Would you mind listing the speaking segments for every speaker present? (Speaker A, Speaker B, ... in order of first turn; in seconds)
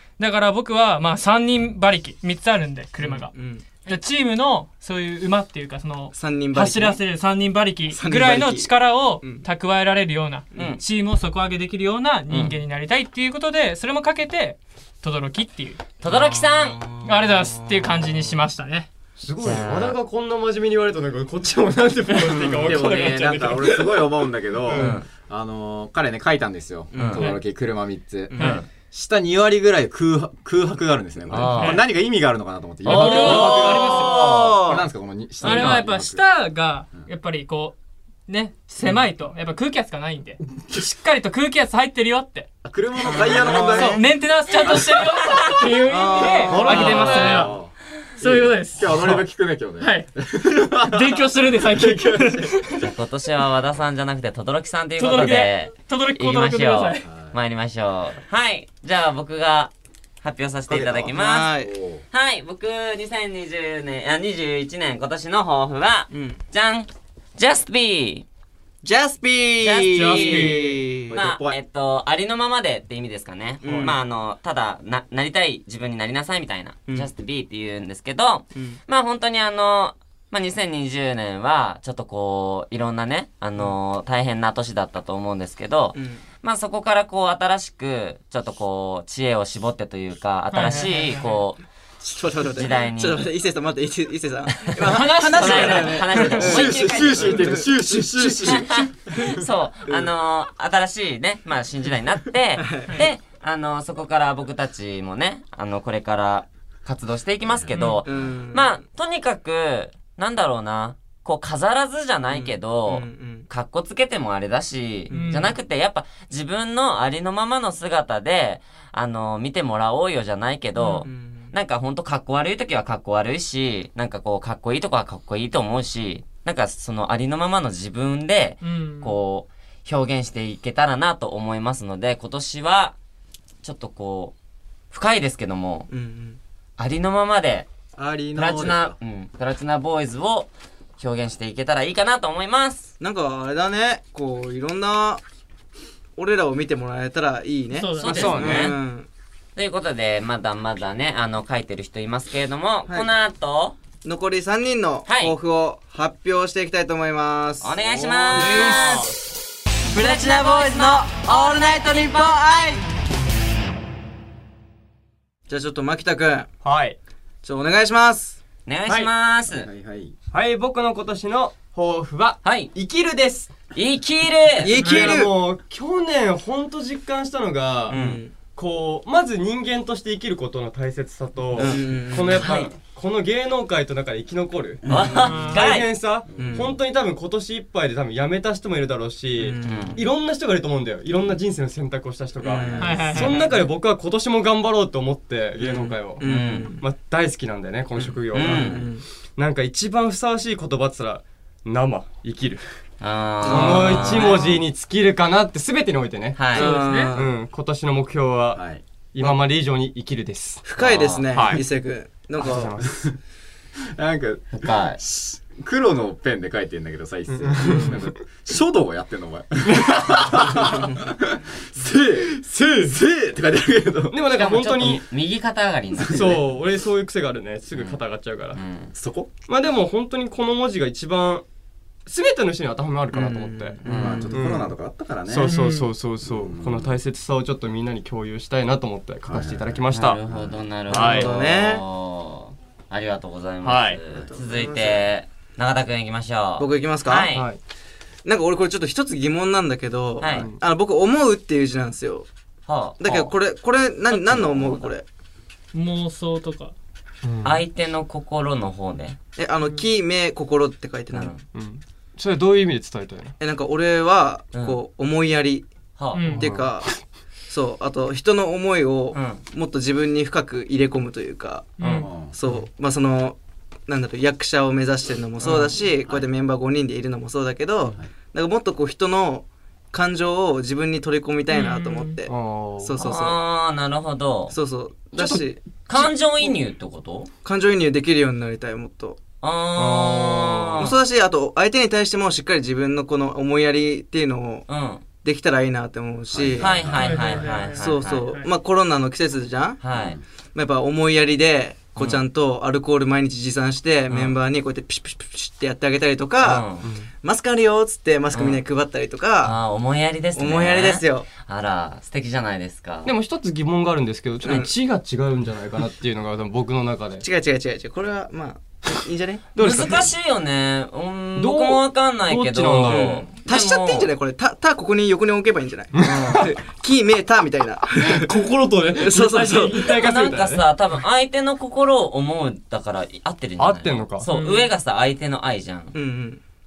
Speaker A: 0.2-3.3, 3.8-15.8, 17.0-18.9, 22.1-22.9, 28.4-28.6, 31.5-31.8, 32.8-34.3, 35.4-37.7, 38.3-42.5, 43.2-47.5, 48.2-52.9, 55.0-57.0, 69.9-70.8, 90.5-91.3, 94.8-96.7, 107.7-108.0, 115.1-115.5, 120.8-121.0, 128.6-129.2, 147.7-148.5, 174.8-175.2, 185.2-185.7, 192.8-193.4, 206.5-207.1, 235.4-235.9, 255.7-256.7, 266.1-266.4, 271.8-272.1, 281.5-282.2, 296.9-298.5, 334.2-334.7
Speaker B: 3.0-3.6, 6.1-7.0, 7.9-9.4, 16.1-18.0, 26.9-27.3, 28.3-28.6, 33.2-34.8, 43.1-44.0, 45.8-47.5, 61.1-61.7, 66.1-66.4, 68.8-71.1, 73.6-74.0, 85.9-86.2, 92.0-98.7, 102.6-103.0, 108.0-108.8, 112.3-113.5, 115.1-115.5, 121.0-121.5, 135.9-136.4, 143.0-145.2, 146.2-149.1, 154.0-157.7, 158.3-159.0, 159.9-162.8, 165.5-166.5, 167.4-168.4, 174.6-175.3, 177.9-178.3, 181.5-182.4, 186.3-186.8, 189.3-190.1, 192.4-193.6, 195.6-196.9, 197.9-199.1, 203.4-204.4, 206.5-207.3, 210.6-212.8, 220.6-220.9, 233.1-234.4, 240.9-241.8, 244.3-245.1, 246.6-247.3, 248.2-252.3, 253.0-255.0, 259.4-261.3, 263.4-265.6, 266.4-266.9, 267.5-273.4, 273.9-283.4, 284.5-285.6, 287.4-289.2, 290.8-294.7, 295.2-296.8, 297.8-299.8, 300.5-309.6, 310.3-311.3, 314.4-314.7, 317.2-319.5, 322.9-328.4, 328.9-330.0, 335.9-336.4
Speaker C: 10.5-10.8, 12.3-12.6, 16.0-16.8, 19.4-19.9, 24.7-25.1, 26.9-27.2, 28.4-28.6, 31.3-31.8, 32.9-34.7, 35.4-35.8, 52.8-61.5, 62.1-68.2, 69.6-70.6, 71.1-91.6, 92.5-93.2, 95.3-97.6, 98.4-132.9, 133.6-134.3, 134.9-135.9, 136.8-137.7, 138.3-142.9, 148.0-148.7, 149.6-153.8, 155.1-155.3, 157.6-159.1, 160.0-161.2, 168.7-169.7, 172.4-172.7, 173.7-174.8, 177.9-178.2, 182.3-182.7, 184.8-185.9, 189.6-190.0, 192.4-193.5, 196.2-196.7, 198.3-198.8, 203.0-204.6, 206.3-206.7, 210.8-211.2, 214.5-215.0, 224.3-226.4, 227.7-228.0, 228.5-228.9, 239.9-247.5, 250.2-250.5, 252.7-253.3, 254.1-254.9, 257.4-259.2, 261.1-261.4, 266.0-266.2, 269.1-269.4, 275.4-276.2, 283.0-284.6, 285.9-287.3, 289.4-290.9, 294.7-295.0, 296.6-298.2, 299.8-300.2, 304.1-304.4, 306.4-306.9, 308.3-308.6, 309.4-313.1, 319.6-324.1, 329.8-335.9
Speaker D: 19.2-25.0, 46.5-47.5, 148.0-148.8, 158.3-159.1, 166.6-167.0, 168.8-169.1, 170.3-173.5, 174.8-184.8, 185.4-196.2, 196.8-202.6, 203.4-206.6, 207.1-208.6, 209.1-210.6, 211.3-211.7, 212.4-213.0, 217.3-218.1, 219.7-220.5, 222.4-222.9, 224.1-225.0, 226.1-228.6, 229.5-231.4, 232.1-234.8, 235.3-240.2, 240.9-241.3, 243.6-244.0, 247.3-247.6, 250.2-250.6, 257.2-257.6, 261.5-263.3, 266.2-266.7, 271.8-272.6, 275.4-275.8, 282.2-283.1, 285.1-286.1, 289.8-290.8, 306.8-307.1, 313.0-317.2, 319.5-320.1, 321.3-323.2, 325.9-326.5, 328.0-330.6, 333.6-334.3
Speaker E: 22.6-36.2, 42.6-44.0, 46.5-52.5, 57.0-57.4, 60.7-62.0, 71.1-71.6, 95.5-99.4, 107.5-107.7, 137.9-139.0, 157.8-158.5, 169.5-170.1, 184.8-185.2, 186.3-186.8, 208.5-208.8, 212.9-213.1, 213.9-224.2, 225.9-226.4, 228.9-229.3, 233.9-235.6, 236.2-236.9, 239.3-240.6, 272.0-272.3, 296.3-297.4, 299.9-300.2